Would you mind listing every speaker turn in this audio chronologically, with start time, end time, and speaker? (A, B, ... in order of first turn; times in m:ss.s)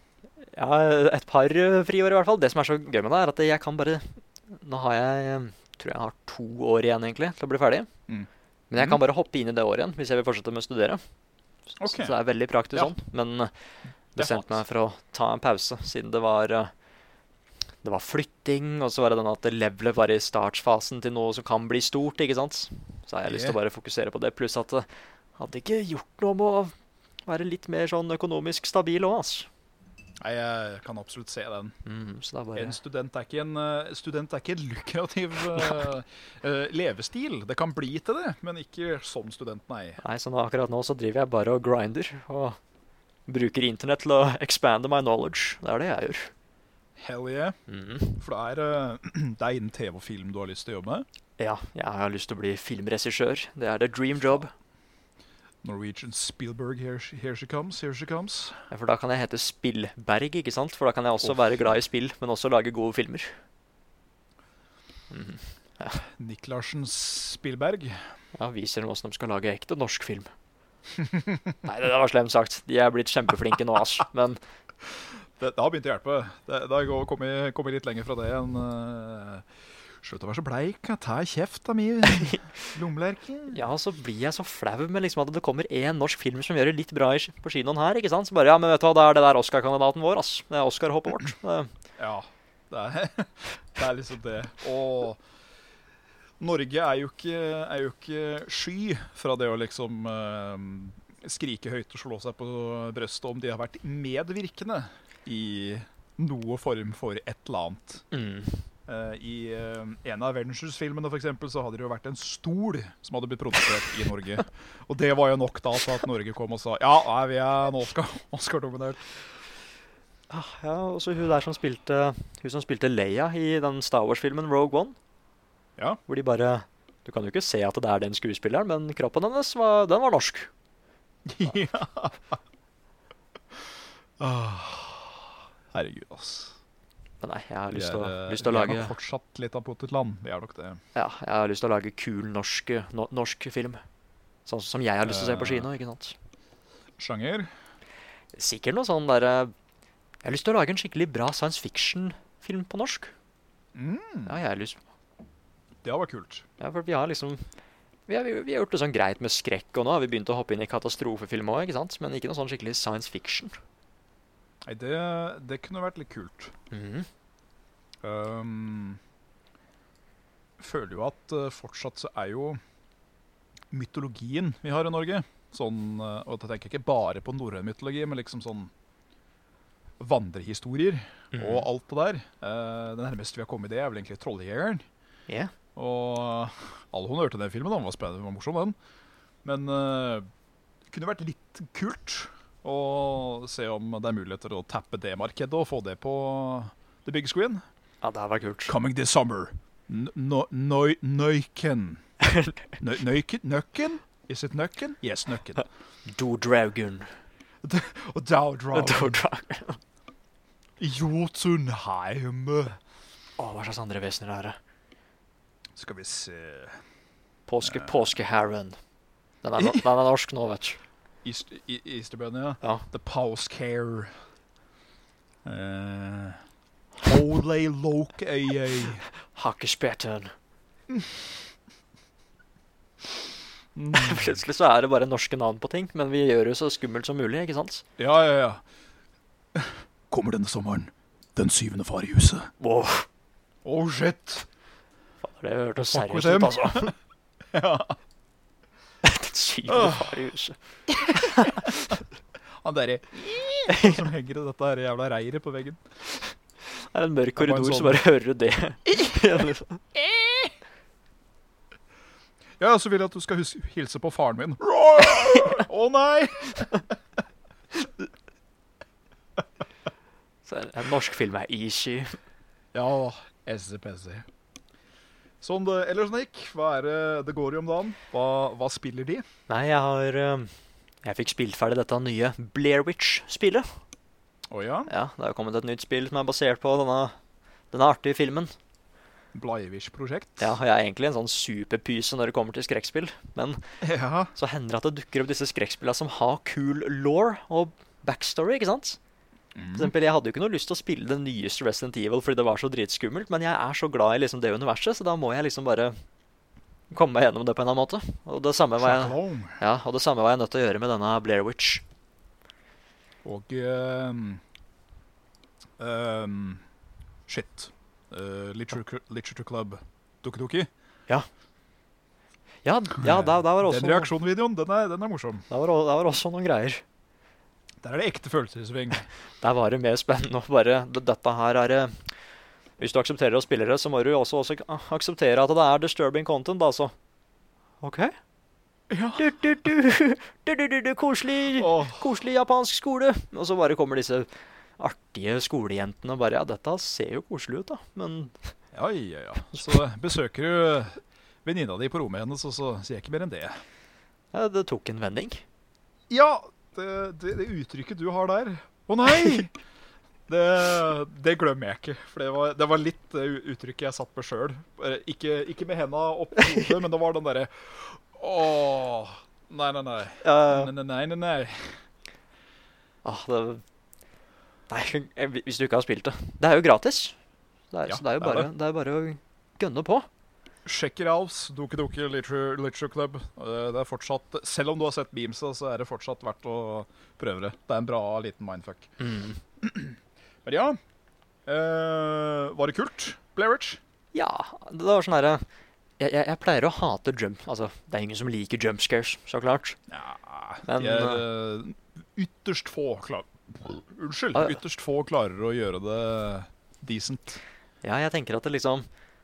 0:00.5-0:07.9 A
0:08.1-0:09.0 B
0:08.7-0:11.0 A
0:11.7-0:13.5 A
0:11.8-0:12.1 B
0:14.2-0:16.7 A
0:14.2-0:14.6 B
0:17.8-0:26.7 A
0:23.2-0:23.6 B
0:27.2-0:29.5 A
0:30.2-0:31.8 B
0:31.8-0:32.8 A
0:32.6-0:40.0 B
0:40.0-0:42.6 A
0:43.3-0:46.3 A
0:47.0-0:47.6 B
0:47.7-0:48.2 A
0:48.2-0:51.0 B
0:51.4-0:54.5 A
0:55.6-0:58.6 B
0:58.7-1:03.3 A
1:05.1-1:06.0 A
1:06.1-1:08.1 B
1:08.3-1:10.3 A
1:11.0-1:11.3 B
1:11.6-1:14.4 A
1:15.4-1:19.4 B
1:20.0-1:23.6 B
1:22.2-1:22.4 A
1:23.5-1:31.7 A
1:32.0-1:35.2 B
1:36.4-1:48.0 B
1:48.1-1:48.6 A
1:48.9-1:59.0 B
2:00.3-2:05.0 A
2:06.1-2:10.5 A
2:11.2-2:12.3 B
2:14.2-2:16.6 B
2:17.2-2:18.9 A
2:17.7-2:20.8 B
2:20.9-2:23.8 A
2:24.4-2:26.1 A
2:25.0-2:25.7 B
2:27.0-2:27.5 B
2:28.3-2:29.5 A
2:30.2-2:33.1 A
2:33.7-2:34.4 B
2:34.3-2:34.8 A
2:35.8-2:36.4 B
2:36.6-2:37.4 A
2:38.1-2:43.5 A
2:44.6-2:46.5 B
2:46.7-2:47.1 A
2:48.0-2:49.0 B
2:50.6-2:52.6 B
2:53.7-2:58.7 B
3:00.0-3:04.9 B
3:01.3-3:01.6 A
3:05.7-3:08.8 B
3:09.4-3:10.3 B
3:10.9-3:17.6 B
3:18.0-3:18.7 A
3:18.7-3:22.0 B
3:22.2-3:22.6 A
3:22.7-3:25.6 B
3:26.1-3:27.1 A
3:27.6-3:29.2 B
3:28.7-3:29.8 A
3:30.8-3:32.8 B
3:33.4-3:34.6 A
3:35.7-3:36.8 B
3:37.5-3:38.8 A
3:37.6-3:38.1 B
3:39.4-3:40.8 A
3:39.6-3:39.9 B
3:41.2-3:44.1 B
3:45.4-3:46.4 B
3:47.0-3:49.0 B
3:49.3-3:50.3 A
3:50.9-3:51.2 B
3:53.7-3:54.4 B
3:53.9-3:57.8 A
3:58.0-3:58.6 B
3:59.5-4:02.5 B
4:02.6-4:03.0 A
4:03.6-4:04.5 B
4:05.2-4:06.9 A
4:05.9-4:06.9 B
4:07.5-4:08.0 B
4:09.0-4:10.6 A
4:09.7-4:10.2 B
4:10.9-4:11.7 B
4:11.1-4:11.9 A
4:12.6-4:15.8 B
4:13.7-4:14.0 A
4:16.9-4:19.8 A
4:17.4-4:18.0 B
4:19.0-4:20.5 B
4:22.6-4:26.9 B
4:30.4-4:32.2 A
4:32.7-4:34.3 B
4:35.4-4:39.2 B
4:39.5-4:40.5 A
4:41.0-4:43.7 A
4:44.5-4:44.9 B
4:44.9-4:47.1 A
4:47.7-4:48.5 A
4:49.3-4:50.5 B
4:50.4-4:53.6 A
4:53.8-4:54.3 B
4:54.3-4:59.0 A
4:59.5-4:59.9 B
4:59.7-5:06.0 A
5:06.9-5:11.8 A
5:08.8-5:09.6 B
5:13.2-5:14.4 B
5:15.8-5:16.6 B
5:17.3-5:20.7 B
5:22.6-5:24.1 A
5:23.0-5:25.4 B
5:25.5-5:26.8 A
5:27.8-5:29.1 B
5:29.4-5:31.9 A
5:32.8-5:36.9 A
5:37.8-5:38.1 A
5:38.9-5:39.3 B
5:39.2-5:48.5 A
5:41.6-5:42.0 B
5:48.7-5:53.6 B
5:54.3-5:55.4 A
5:56.1-5:59.5 B
6:00.3-6:11.8 B
6:10.2-6:10.7 A
6:13.0-6:13.6 A
6:14.7-6:17.2 A
6:17.7-6:20.1 A
6:17.9-6:18.5 B
6:20.6-6:28.9 B
6:29.0-6:29.4 A
6:29.6-6:30.8 B
6:31.4-6:33.8 B
6:34.1-6:35.4 A
6:36.0-6:39.8 A
6:39.9-6:47.4 B
6:40.7-6:41.2 A
6:47.8-6:48.9 A